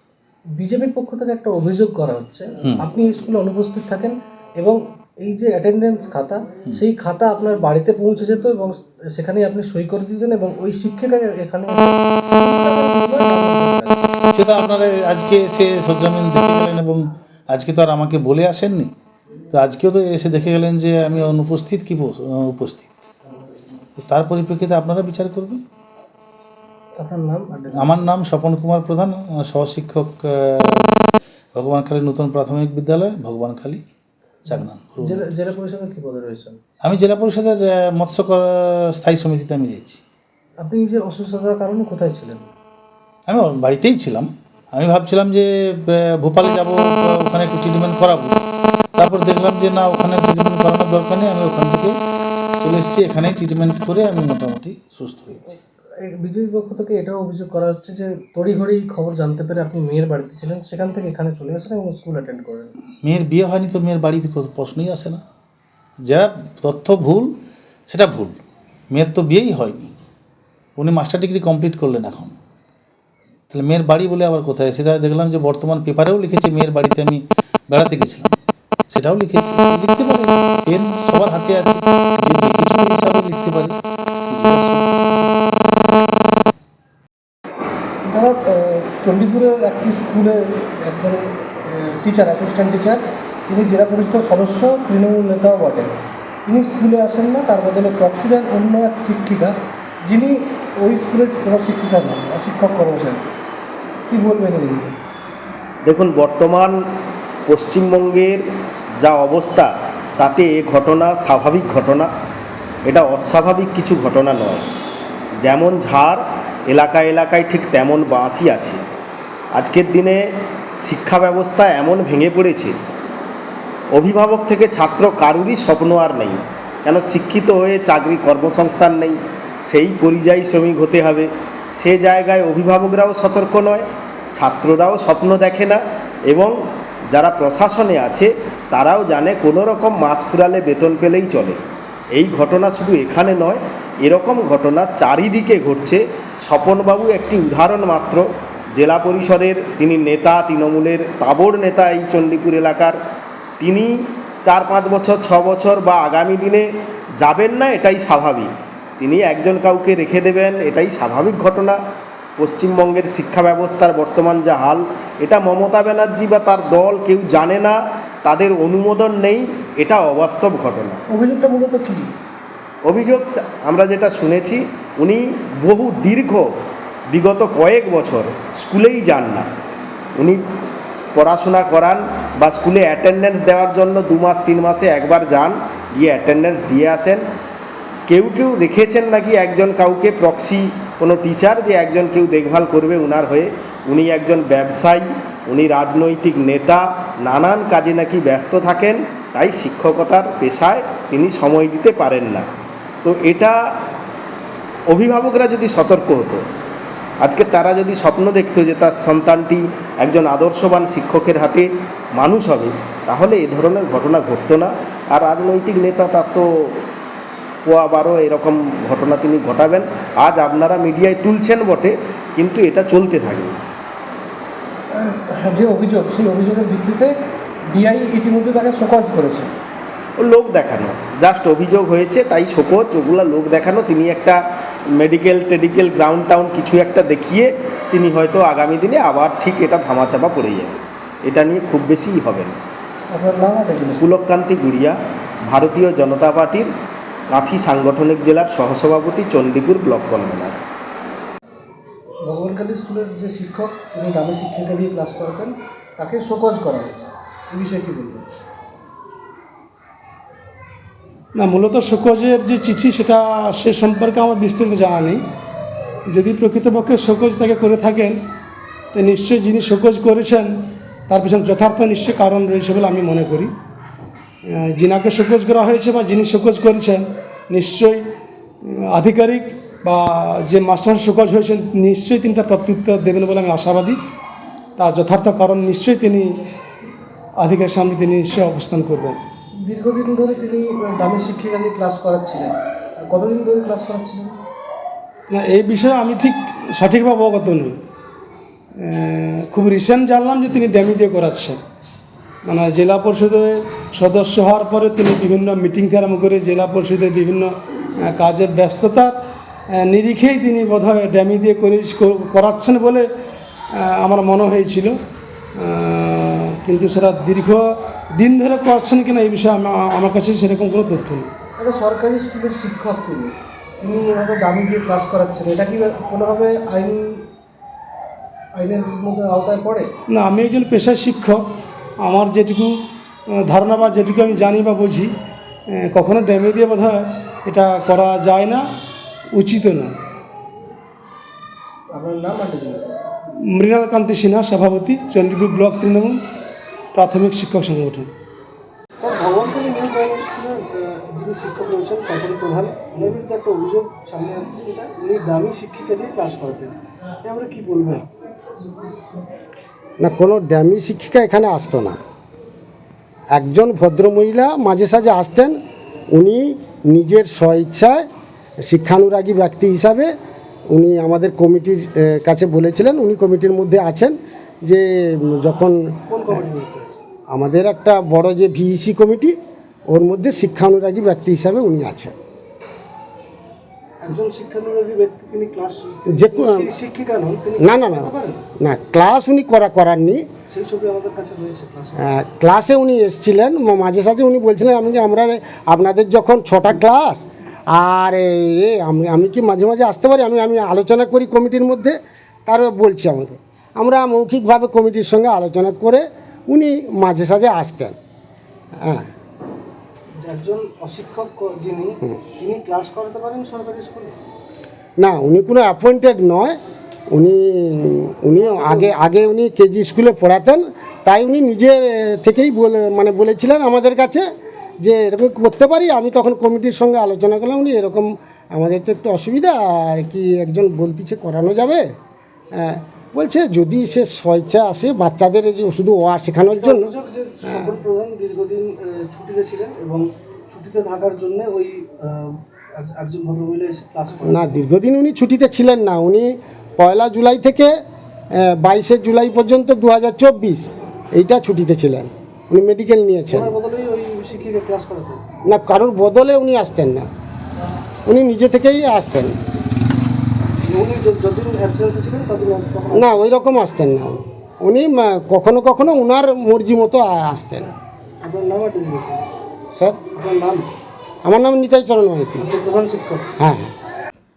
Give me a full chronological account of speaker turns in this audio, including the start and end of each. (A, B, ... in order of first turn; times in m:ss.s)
0:00.6-0:14.0 A
0:14.3-0:18.9 B
0:19.5-0:22.9 B
0:24.0-0:25.6 B
0:27.0-0:28.0 A
0:27.8-0:30.9 B
0:31.6-0:33.8 B
0:34.5-0:35.3 B
0:34.5-0:36.6 A
0:36.8-0:40.0 B
0:40.6-0:42.5 A
0:43.3-0:48.3 B
0:49.0-0:51.9 B
0:52.6-0:55.5 B
0:56.0-1:02.7 A
1:03.0-1:05.2 B
1:06.1-1:07.3 B
1:07.9-1:08.4 B
1:08.9-1:09.9 B
1:10.8-1:12.3 B
1:13.5-1:18.3 B
1:18.9-1:23.8 B
1:24.3-1:25.3 B
1:28.0-1:35.9 A
1:36.4-1:43.3 A
1:44.1-1:45.0 A
1:45.8-1:46.8 C
1:47.4-1:48.4 C
1:49.0-1:52.1 C
1:52.9-1:54.7 C
1:55.4-1:58.8 C
1:59.5-2:00.2 C
2:00.8-2:02.8 C
2:03.9-2:16.5 C
2:17.1-2:21.6 C
2:22.2-2:28.2 C
2:28.8-2:33.0 C
2:33.6-2:36.6 C
2:37.2-2:41.8 C
2:42.4-2:51.0 C
2:51.1-2:52.1 A
2:52.8-2:56.4 C
2:57.1-2:59.5 C
3:01.1-3:07.2 C
3:08.1-3:22.5 C
3:23.0-3:23.6 C
3:24.9-3:26.4 C
3:27.2-3:36.8 C
3:37.6-3:43.6 C
3:44.9-3:47.2 A
3:47.7-3:49.5 A
3:50.2-3:54.4 C
3:55.0-4:02.6 C
4:03.1-4:04.0 A
4:04.0-4:05.0 C
4:05.5-4:06.7 C
4:07.3-4:10.6 C
4:12.2-4:18.2 A
4:21.4-4:25.2 D
4:26.1-4:28.2 D
4:28.9-4:33.5 D
4:34.4-4:38.0 D
4:38.6-4:44.0 D
4:44.8-4:46.3 D
4:47.4-4:49.2 D
4:49.6-4:54.4 A
4:55.3-4:57.8 D
4:58.7-5:01.6 D
5:02.4-5:09.2 D
5:09.7-5:13.1 D
5:13.7-5:15.0 D
5:15.6-5:21.3 D
5:21.6-5:27.2 A
5:28.5-5:29.9 A
5:30.1-5:31.4 D
5:32.0-5:32.7 D
5:33.3-5:35.1 D
5:35.7-5:38.6 D
5:39.3-5:39.9 D
5:41.9-5:43.0 A
5:43.4-5:46.2 D
5:46.9-5:48.1 D
5:49.0-5:58.0 A
6:00.0-6:02.0 E
6:03.3-6:05.6 E
6:06.1-6:08.0 E
6:08.6-6:10.1 E
6:10.7-6:14.1 E
6:14.6-6:16.4 E
6:16.1-6:17.0 A
6:17.3-6:19.4 E
6:19.9-6:22.1 E
6:24.0-6:28.4 A
6:26.1-6:26.7 E
6:27.6-6:30.2 E
6:30.5-6:32.1 A
6:32.0-6:48.0 E
6:48.8-6:49.0 E
6:50.2-6:54.1 A
6:55.0-6:56.6 E
6:57.1-7:04.2 E
6:58.5-6:58.9 A
7:04.8-7:11.9 E
7:12.6-7:16.9 E
7:16.5-7:24.5 A
7:24.2-7:27.7 E
7:28.4-7:33.5 E
7:33.3-7:35.2 A
7:35.5-7:37.1 E
7:38.1-7:39.4 E
7:40.6-7:43.3 A
7:42.9-7:47.7 E
7:48.2-7:49.2 A
7:49.7-7:50.0 E
7:50.1-7:50.6 A
7:51.2-7:52.5 E
7:52.4-7:53.3 A
7:53.4-7:53.7 E